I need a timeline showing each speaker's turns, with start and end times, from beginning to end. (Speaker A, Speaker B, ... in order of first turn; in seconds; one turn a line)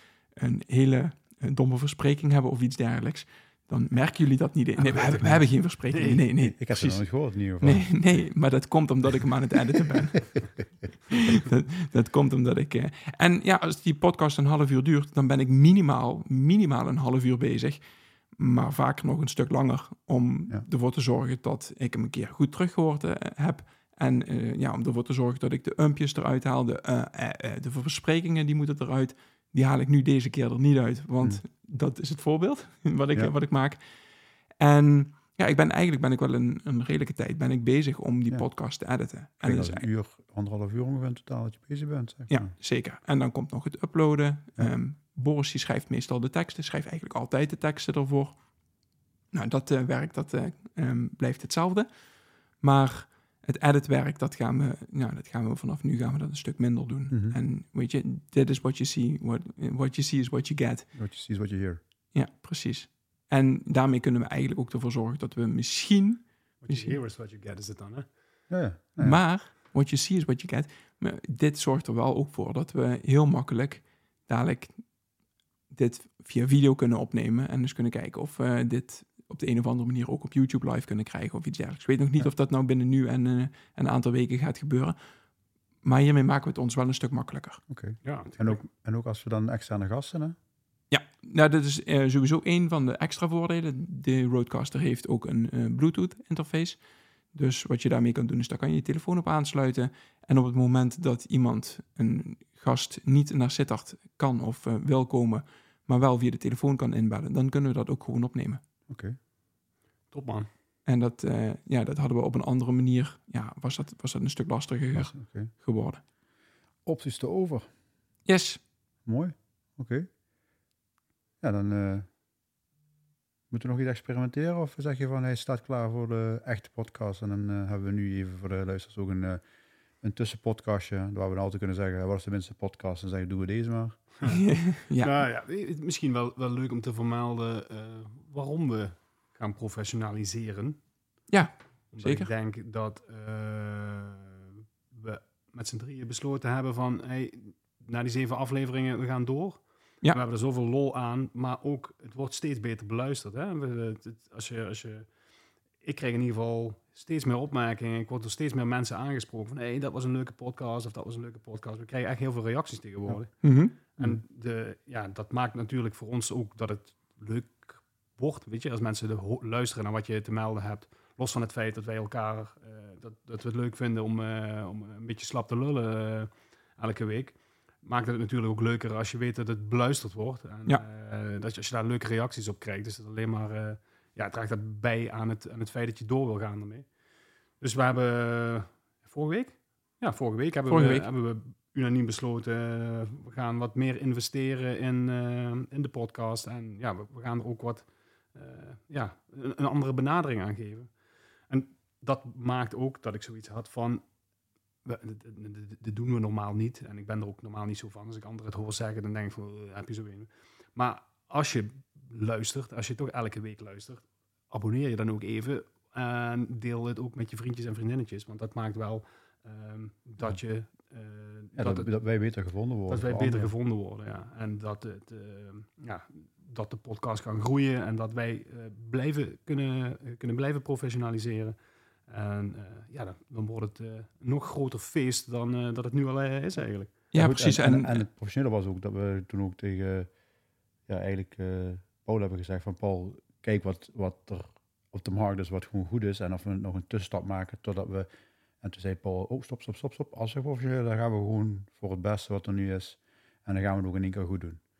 Speaker A: 0.3-7.0
Speaker B: 5.0-8.0
Speaker A: 7.6-10.3
Speaker A: 11.1-17.8
Speaker A: 18.4-33.8
Speaker A: 34.6-39.9
Speaker B: 39.4-42.5
Speaker A: 42.3-48.4
Speaker A: 49.3-51.9
Speaker A: 52.6-60.9
Speaker B: 57.1-57.4
Speaker B: 60.9-61.8
Speaker A: 62.1-67.0
Speaker C: 66.6-68.1
Speaker B: 68.5-69.2
Speaker A: 69.0-74.8
Speaker A: 75.7-85.0
Speaker A: 85.8-87.6
Speaker B: 87.7-90.3
Speaker C: 88.0-88.6
Speaker A: 90.9-96.8
Speaker A: 97.3-108.6
Speaker B: 108.9-109.2
Speaker C: 110.1-110.5
Speaker A: 110.8-116.0
Speaker B: 114.9-115.5
Speaker B: 116.8-117.7
Speaker A: 118.3-118.6
Speaker B: 119.0-120.1
Speaker B: 121.4-122.0
Speaker B: 123.5-129.4
Speaker B: 130.0-134.0
Speaker A: 134.2-135.1
Speaker C: 135.0-140.8
Speaker A: 141.3-142.3
Speaker C: 141.9-155.1
Speaker C: 155.8-186.8
Speaker A: 163.4-163.8
Speaker C: 187.6-200.9
Speaker A: 190.7-191.1
Speaker C: 201.5-204.0
Speaker C: 204.8-221.9
Speaker B: 221.6-223.5
Speaker C: 222.9-231.6
Speaker C: 232.1-237.0
Speaker A: 237.1-238.0
Speaker B: 237.1-240.1
Speaker B: 240.9-248.1
Speaker B: 248.6-254.6